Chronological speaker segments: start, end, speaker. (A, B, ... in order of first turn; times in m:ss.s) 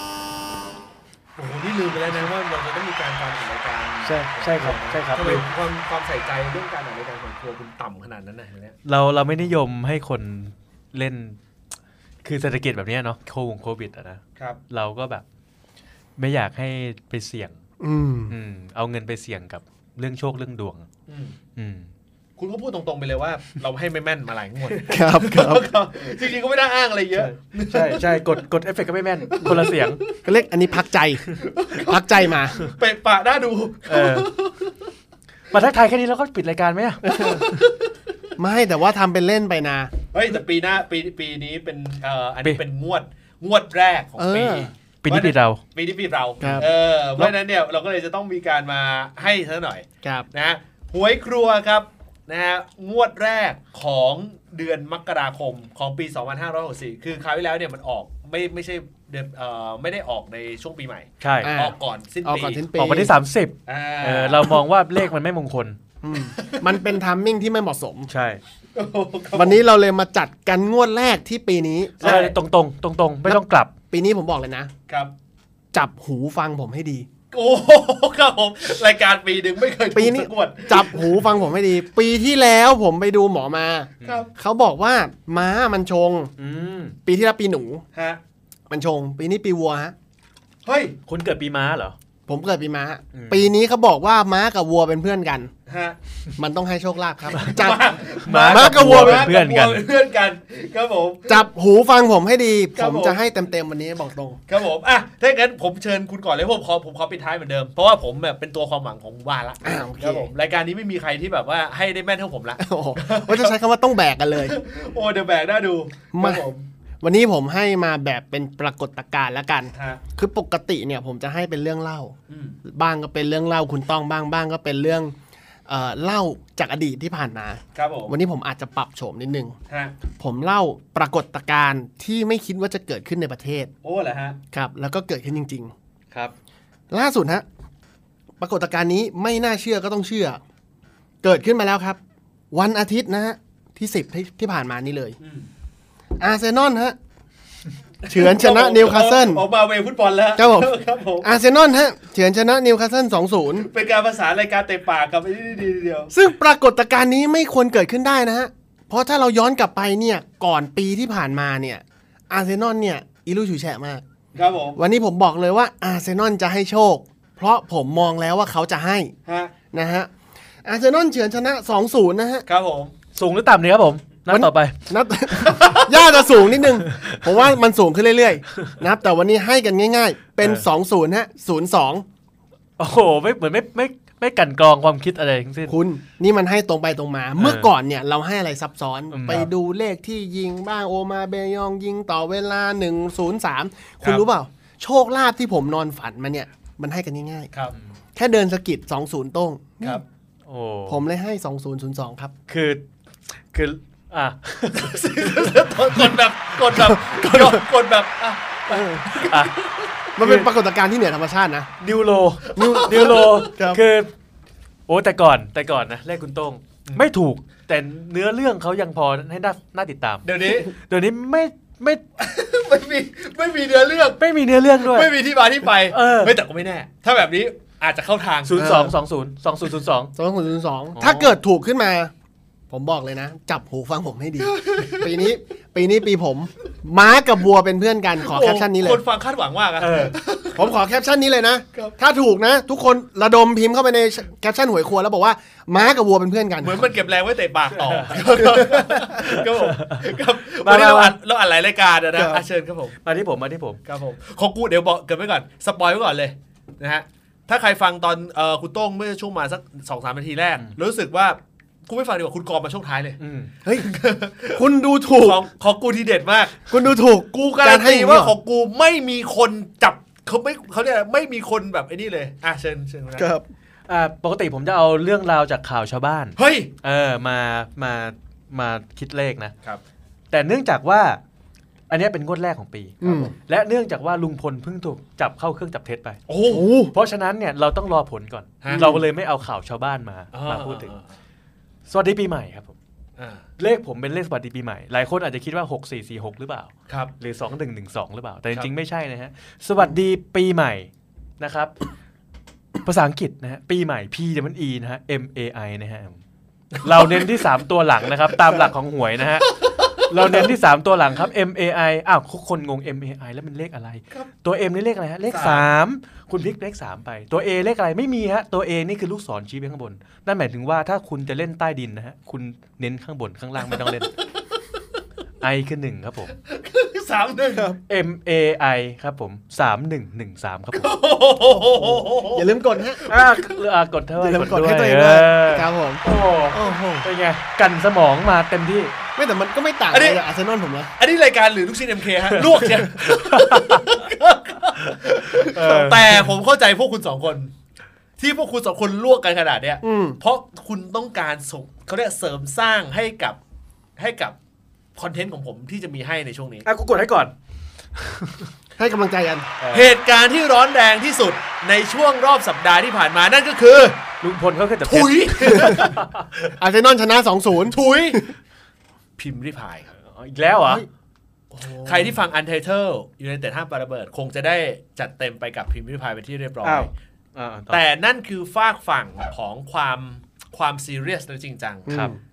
0:01.4-0:08.8 A
0:04.0-0:05.4 B
0:08.8-0:11.4 B
0:12.2-0:15.2 B
0:16.2-0:17.6 B
0:17.8-0:18.3 C
0:18.3-0:20.9 B
0:21.1-0:21.4 A
0:21.6-0:21.9 B
0:22.4-0:28.3 A
0:24.9-0:25.6 C
0:27.1-0:30.0 B
0:29.3-0:30.2 A
0:30.2-0:31.2 C
0:31.4-0:34.9 A
0:31.8-0:32.6 C
0:33.9-0:34.3 B
0:35.5-0:37.4 B
0:37.0-0:37.4 C
0:37.0-0:37.9 A
0:38.4-0:39.9 C
0:40.1-1:02.6 A
0:44.2-0:44.7 C
0:45.0-0:45.6 B
0:46.4-0:46.7 C
0:50.0-0:50.3 C
1:01.2-1:01.5 B
1:01.4-1:03.1 C
1:02.7-1:05.8 B
1:03.7-1:04.6 A
1:06.0-1:08.1 C
1:06.4-1:06.8 A
1:08.1-1:08.4 B
1:08.7-1:09.6 A
1:09.3-1:12.1 C
1:12.0-1:13.7 B
1:12.0-1:12.4 A
1:13.2-1:14.7 C
1:15.7-1:17.1 C
1:17.3-1:21.2 A
1:19.9-1:26.3 C
1:24.0-1:24.3 A
1:26.4-1:27.0 B
1:27.0-1:27.8 C
1:27.9-1:28.2 A
1:28.7-1:29.9 C
1:30.6-1:30.9 A
1:31.1-1:32.0 B
1:32.3-1:35.5 C
1:33.1-1:33.5 B
1:35.7-1:36.0 A
1:36.4-1:39.3 C
1:37.3-1:41.4 A
1:38.2-1:39.8 B
1:41.3-1:44.4 C
1:42.7-1:43.2 A
1:44.5-1:53.5 A
1:49.6-1:50.3 C
1:52.6-1:54.6 C
1:54.4-1:56.7 A
1:56.1-1:56.4 C
1:57.0-2:05.1 C
1:59.7-2:00.0 A
2:02.3-2:02.6 A
2:05.7-2:09.6 C
2:07.7-2:08.2 A
2:09.7-2:10.0 A
2:10.2-2:13.7 C
2:13.8-2:14.4 A
2:14.5-2:15.7 C
2:16.9-2:17.4 C
2:18.4-2:20.4 C
2:21.2-2:22.0 C
2:22.5-2:25.2 C
2:25.2-2:25.5 A
2:26.2-2:27.0 C
2:28.0-2:31.3 A
2:28.1-2:29.4 C
2:30.4-2:33.7 C
2:33.6-2:36.1 A
2:36.1-2:44.0 C
2:44.3-2:44.8 A
2:44.8-2:49.1 C
2:49.2-2:49.5 A
2:49.7-2:50.1 C
2:50.6-2:52.4 C
2:52.4-2:52.9 A
2:53.1-2:54.8 B
2:54.3-3:02.0 C
2:55.4-2:56.0 A
2:56.9-2:57.2 B
3:02.8-3:05.7 B
3:05.7-3:17.5 C
3:07.4-3:07.7 B
3:09.1-3:09.5 B
3:18.1-3:20.0 C
3:20.4-3:21.0 B
3:20.9-3:22.3 C
3:22.5-3:22.8 B
3:23.5-3:25.4 B
3:24.7-3:29.9 A
3:26.9-3:27.6 C
3:28.7-3:29.1 C
3:29.2-3:29.5 B
3:30.2-3:31.7 C
3:30.2-3:30.5 B
3:31.8-3:34.1 B
3:32.5-3:33.5 A
3:32.6-3:33.8 C
3:34.9-3:42.0 B
3:40.2-3:40.7 A
3:42.2-3:44.2 A
3:44.2-3:45.1 B
3:44.8-3:48.7 A
3:45.9-3:46.4 B
3:48.4-3:50.1 B
3:48.6-3:48.9 C
3:50.1-3:52.1 C
3:51.0-3:51.4 B
3:52.7-3:59.0 C
3:54.4-3:55.1 A
3:58.2-4:00.7 A
3:59.8-4:00.2 B
4:00.5-4:06.8 C
4:06.6-4:13.0 A
4:07.7-4:10.0 B
4:08.4-4:08.8 C
4:10.6-4:11.2 B
4:12.2-4:12.4 C
4:13.0-4:13.8 B
4:13.8-4:23.2 A
4:23.2-4:23.5 B
4:23.8-4:24.6 A
4:24.5-4:25.4 C
4:25.2-4:26.6 A
4:26.7-4:28.3 C
4:27.5-4:33.3 A
4:33.2-4:33.4 C
4:33.9-4:39.5 B
4:36.4-4:36.7 A
4:40.3-4:41.2 B
4:41.9-4:46.2 B
4:43.0-4:43.3 C
4:46.3-4:46.7 A
4:46.5-4:46.9 C
4:46.9-4:50.9 B
4:48.6-4:49.0 A
4:48.7-4:49.0 C
4:50.3-4:51.0 A
4:51.9-4:52.7 B
4:53.2-4:53.4 A
4:53.6-5:01.7 B
5:02.8-5:06.2 B
5:06.8-5:24.1 B
5:06.8-5:07.3 A
5:15.3-5:15.7 A
5:23.7-5:23.9 A
5:25.4-5:26.3 B
5:26.4-5:27.8 A
5:27.9-5:30.9 B
5:30.7-5:32.5 A
5:31.8-5:33.0 C
5:33.0-5:33.5 A
5:33.1-5:38.9 B
5:34.2-5:37.1 C
5:39.2-5:40.9 C
5:39.9-5:40.2 A
5:41.0-5:47.5 A
5:42.3-5:43.9 B
5:45.4-5:46.2 B
5:48.2-5:53.4 A
5:49.8-5:50.2 C
5:54.0-5:54.3 A
5:55.0-5:56.6 A
5:56.6-5:57.3 B
5:58.0-5:58.5 B
5:58.8-5:59.5 C
5:59.6-5:59.9 B
5:59.7-6:04.0 A
6:04.2-6:06.3 B
6:04.8-6:06.0 A
6:05.5-6:05.8 C
6:06.5-6:08.3 C
6:07.7-6:08.3 A
6:09.2-6:09.9 A
6:09.9-6:10.8 B
6:11.6-6:12.1 C
6:11.8-6:16.9 A
6:16.6-6:17.8 B
6:17.7-6:21.9 A
6:21.9-6:22.2 C
6:21.9-6:22.1 B